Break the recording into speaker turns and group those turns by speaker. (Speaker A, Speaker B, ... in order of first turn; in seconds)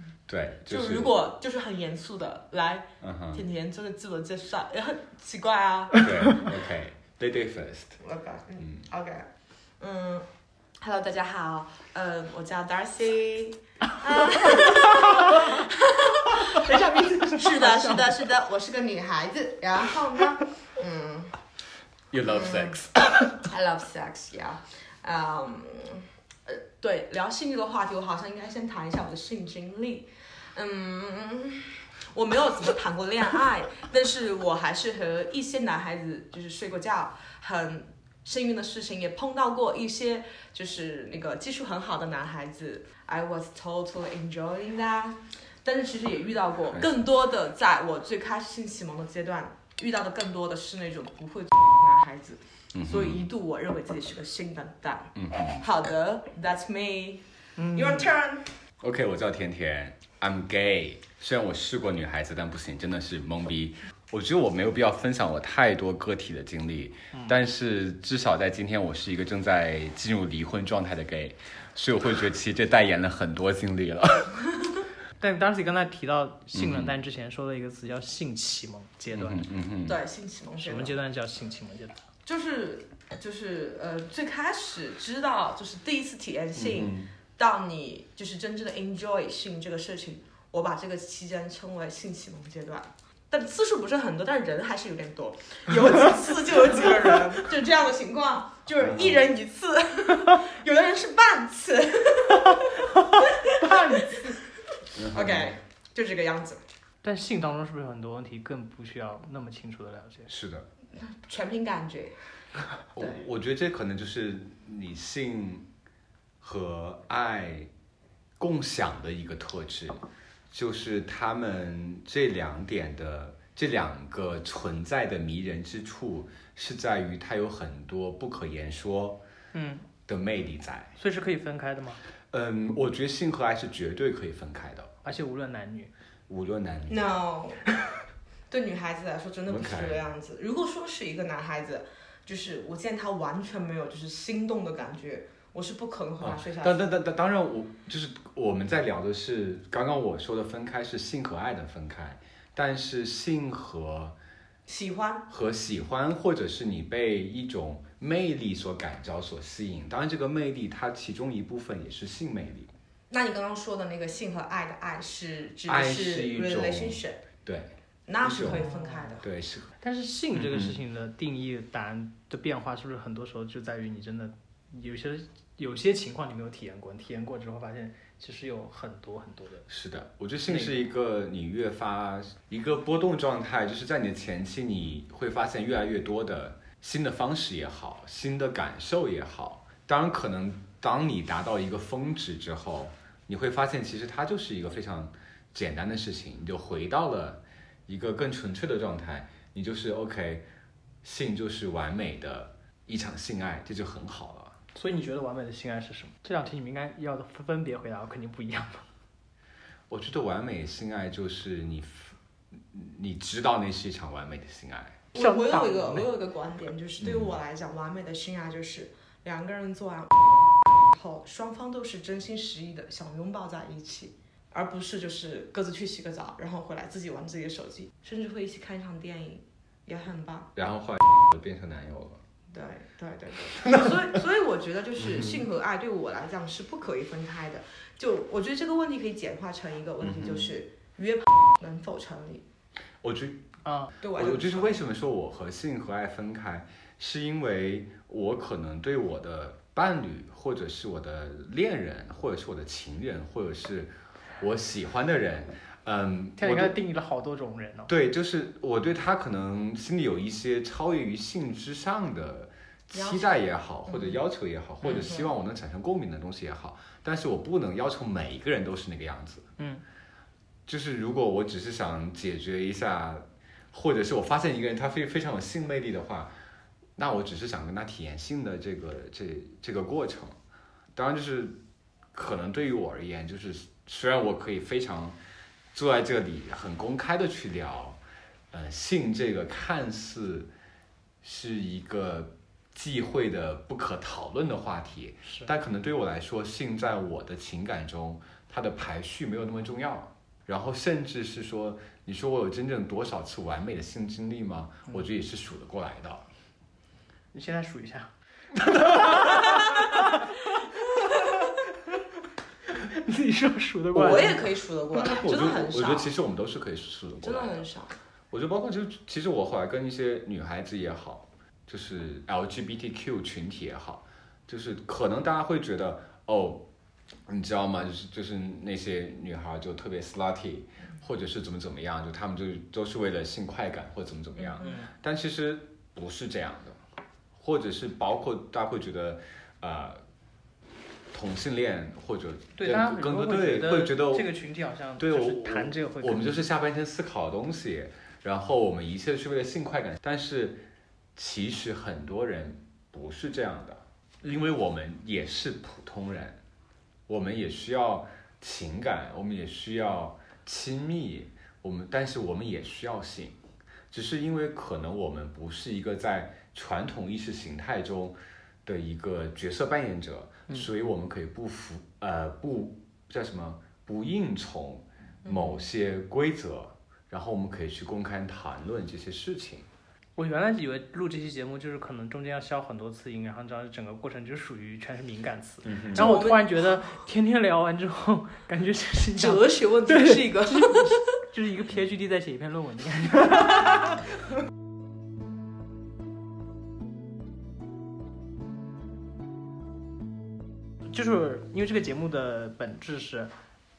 Speaker A: 0.3-1.1, 3.0-3.4, 6.0-8.0, 8.6-8.8, 22.1-22.9, 52.7-53.2, 55.1-55.6, 58.8-74.3, 76.5-76.9, 79.1-80.0, 86.6-87.1, 98.8-99.3, 105.0-105.6, 110.3-110.7, 113.0-115.7, 116.4-117.7, 118.4-129.2, 130.1-130.9, 132.3-134.9, 136.3-137.0, 139.5-140.0, 146.2-154.2, 155.3-162.7, 165.7-167.7, 168.2-168.7, 169.2-169.7, 170.3-170.8, 179.7-200.5, 201.0-204.6, 209.9-212.1, 212.7-215.0, 217.0-217.4, 230.6-232.2, 233.6-233.9, 235.0-235.4, 240.0-240.5, 243.0-243.4, 244.2-256.8, 257.9-269.5, 270.7-276.3, 277.0-280.4, 280.9-281.6, 282.1-285.2, 285.7-288.0, 288.5-290.5, 291.2-306.2, 308.8-309.1, 315.0-317.7, 318.3-326.7, 327.3-336.8, 337.4-340.0, 341.1-344.3, 345.0-350.6, 351.2-356.4, 357.1-363.4, 363.9-379.7, 385.6-386.1
Speaker B: 0.7-6.1, 8.0-9.3, 9.8-10.3, 10.8-21.3, 22.2-58.5, 79.9-81.0, 82.3-104.4, 105.1-106.6, 111.0-112.2, 136.9-137.6, 138.5-146.8, 154.7-155.2, 163.1-167.2, 168.1-169.3, 215.1-220.3, 220.9-230.5, 232.5-242.4, 244.0-244.8, 262.9-263.3, 263.9-264.2, 264.8-265.3, 313.9-316.1, 317.2-317.9, 334.5-334.7, 375.2-375.6, 385.9-386.7, 389.2-391.1
Speaker C: 16.4-18.2, 57.6-58.1, 75.2-79.5, 80.6-82.0, 103.6-104.3, 107.0-110.3, 129.5-129.9, 131.0-132.0, 135.0-135.9, 168.5-169.1, 169.8-179.7, 180.5-180.9, 204.7-208.8, 215.2-216.1, 243.7-243.9, 256.4-257.9, 269.6-269.8, 307.3-308.1, 308.7-310.4, 311.0-311.5, 312.7-314.4, 334.6-334.9, 342.6-346.4, 380.2-394.0, 400.9-403.3